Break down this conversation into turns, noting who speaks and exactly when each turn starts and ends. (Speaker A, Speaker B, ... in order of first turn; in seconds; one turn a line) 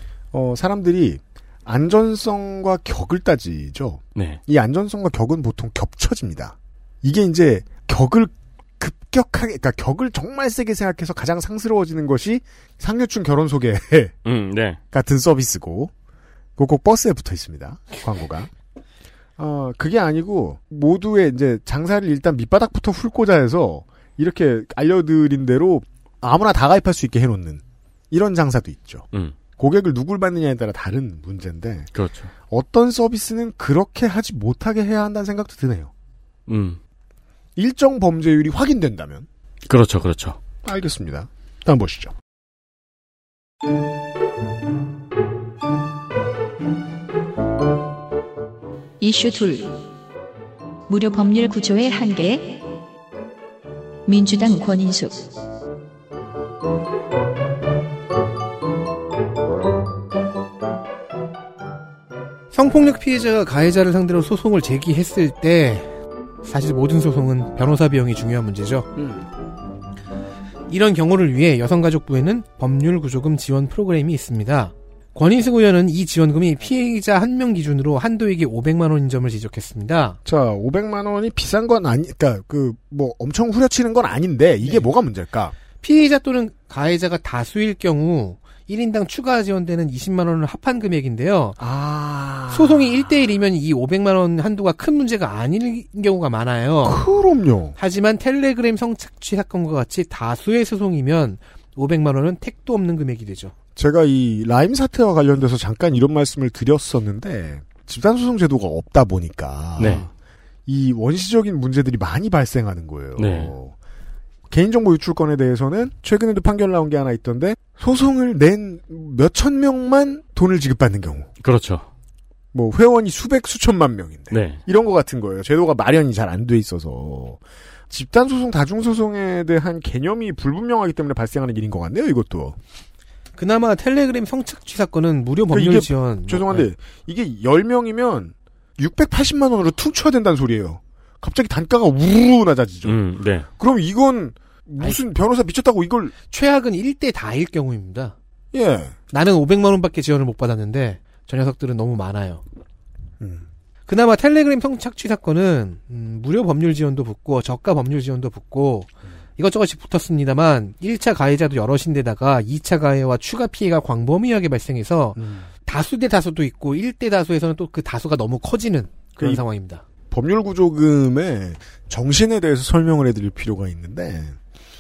Speaker A: 0.3-14.1
Speaker B: 14.2-14.8
Speaker A: 14.9-15.9
Speaker A: 16.6-18.5
Speaker A: 19.4-29.1
Speaker A: 29.6-31.9
Speaker B: 31.9-32.3
Speaker A: 32.5-35.9
Speaker B: 36.5-36.8
Speaker A: 37.5-39.3
Speaker B: 39.7-40.4
Speaker A: 40.6-42.1
Speaker C: 49.0-49.8
Speaker C: 50.9-52.7
Speaker C: 54.0-55.3
Speaker D: 62.5-65.9
Speaker D: 66.4-68.9
Speaker A: 69.0-69.3
Speaker D: 70.7-80.2
Speaker A: 80.2-85.5
Speaker D: 85.8-91.6
Speaker A: 91.6-93.1
Speaker D: 92.5-97.0
Speaker A: 96.8-97.8
Speaker D: 97.8-103.5
Speaker A: 103.8-110.1
Speaker B: 109.8-110.0
Speaker A: 110.7-113.7
Speaker B: 113.2-113.5
Speaker A: 114.5-121.3
Speaker B: 121.4-121.8
Speaker A: 122.5-132.6
Speaker B: 124.3-124.6
Speaker D: 133.3-136.7
Speaker A: 135.5-143.0
Speaker B: 142.8-143.5
Speaker A: 143.6-146.1
Speaker D: 146.3-148.1
Speaker A: 148.5-148.9
Speaker D: 149.1-152.4
Speaker A: 153.2-153.5
Speaker D: 153.9-169.8
Speaker A: 165.2-165.5
Speaker A: 169.2-169.4
Speaker A: 170.1-174.4